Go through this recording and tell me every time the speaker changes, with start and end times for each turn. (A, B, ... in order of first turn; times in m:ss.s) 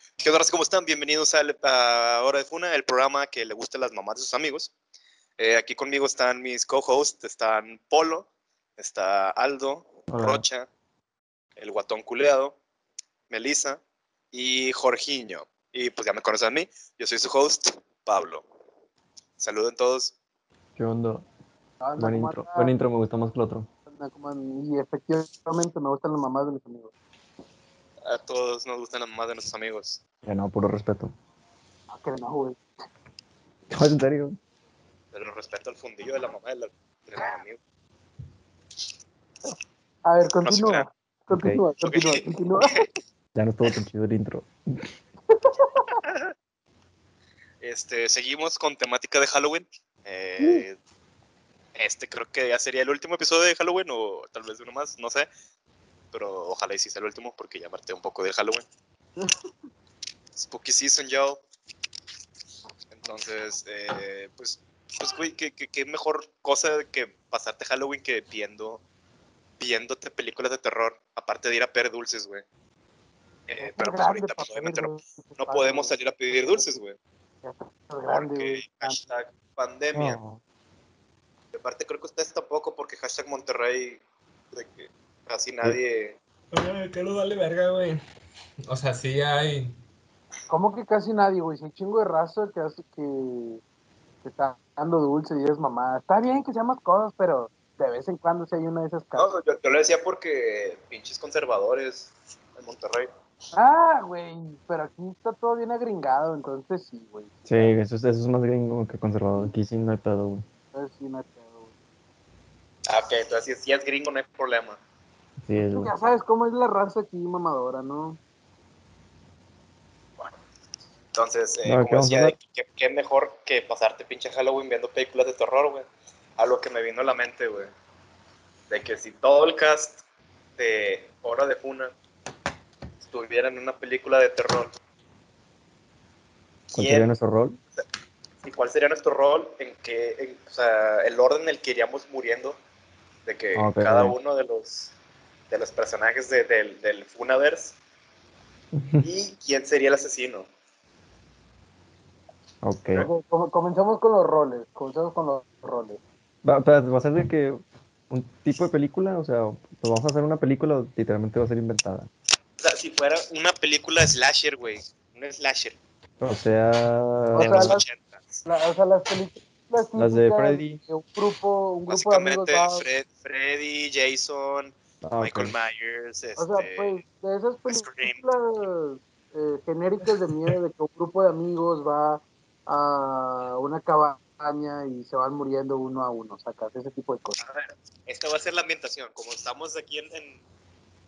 0:00.2-0:04.7 A
0:05.4-0:10.7 A
0:10.1-0:10.4 B
0:11.6-0:12.6 A
0:13.3-0:13.8 A
0:14.3-0:18.4 A
0:19.4-0:20.1 A
0:20.8-0:21.2 B
0:21.8-0:22.7 C
0:22.0-0:23.7 B
0:23.9-0:26.9 C
0:28.0-0:30.0 A
0:30.2-0:31.1 B
0:31.9-0:32.6 C
0:33.7-0:34.4 B
0:35.1-0:37.6 A
0:40.1-0:42.9 C
0:40.4-0:40.9 A
0:41.3-0:41.6 B
0:41.9-0:42.9 A
0:43.4-0:44.9 B
0:45.3-0:45.9 C
0:45.9-0:46.3 A
0:47.6-0:50.8 A
0:51.8-0:55.3 A
0:56.1-0:58.6 A
0:59.2-0:59.5 C
1:00.4-1:01.4 A
1:02.9-1:08.8 A
1:09.6-1:12.4 A
1:13.5-1:17.0 A
1:13.6-1:16.8 C
1:17.4-1:19.0 C
1:18.1-1:20.2 A
1:19.9-1:20.4 B
1:21.6-1:24.0 A
1:24.5-1:26.2 A
1:26.5-1:28.0 D
1:28.7-1:29.8 D
1:30.5-1:33.6 C
1:34.2-1:39.3 C
1:39.2-1:43.1 A
1:43.5-1:47.7 C
1:47.5-1:50.4 B
1:50.7-1:51.7 C
1:52.9-1:54.8 A
1:55.4-1:55.9 B
1:55.7-1:58.2 C
2:01.1-2:05.9 A
2:01.6-2:02.4 B
2:06.4-2:07.7 A
2:08.7-2:10.0 A
2:10.6-2:11.9 A
2:13.0-2:14.7 A
2:16.7-2:17.1 A
2:16.7-2:17.6 B
2:18.4-2:22.6 A
2:23.3-2:24.9 A
2:23.6-2:24.2 B
2:25.5-2:27.8 A
2:28.7-2:29.1 B
2:29.0-2:30.5 A
2:32.6-2:33.1 B
2:33.0-2:36.0 C
2:36.4-2:42.1 B
2:42.6-2:45.8 A
2:46.2-2:47.8 B
2:47.4-2:47.8 C
2:47.4-2:48.4 A
2:48.5-2:52.8 C
2:50.0-2:50.8 B
2:51.9-2:57.0 A
2:55.0-2:55.5 B
2:56.4-3:07.4 C
2:57.7-2:58.2 A
3:07.4-3:10.4 A